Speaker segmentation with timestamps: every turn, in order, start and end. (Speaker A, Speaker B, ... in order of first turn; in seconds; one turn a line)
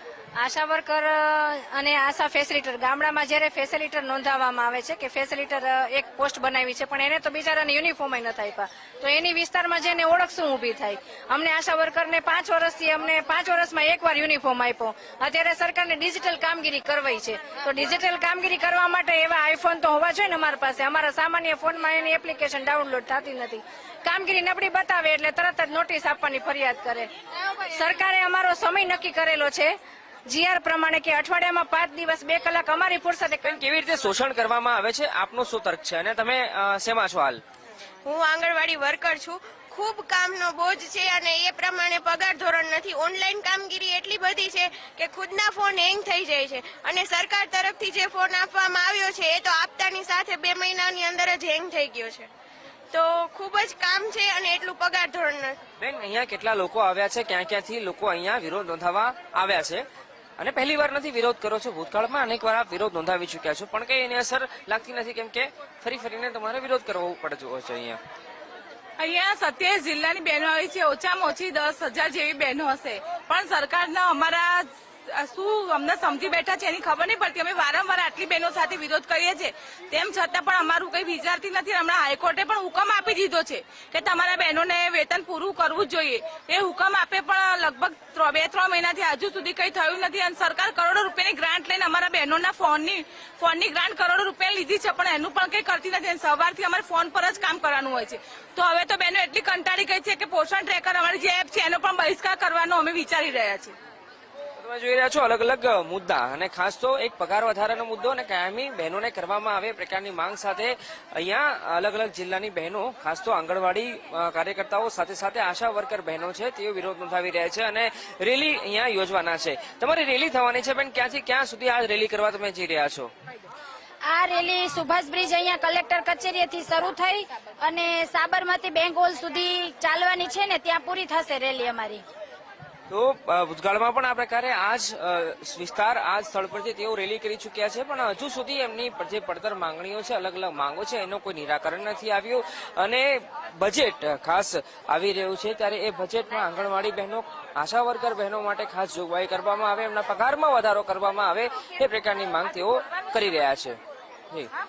Speaker A: 0.4-33.6
Speaker B: 33.4-37.4
Speaker C: 38.0-52.3
Speaker C: 52.9-55.6
Speaker B: 55.8-59.9
Speaker B: 60.4-68.0
Speaker D: 69.0-103.7
Speaker B: 104.6-123.1
Speaker E: 124.1-132.0
Speaker B: 132.9-153.8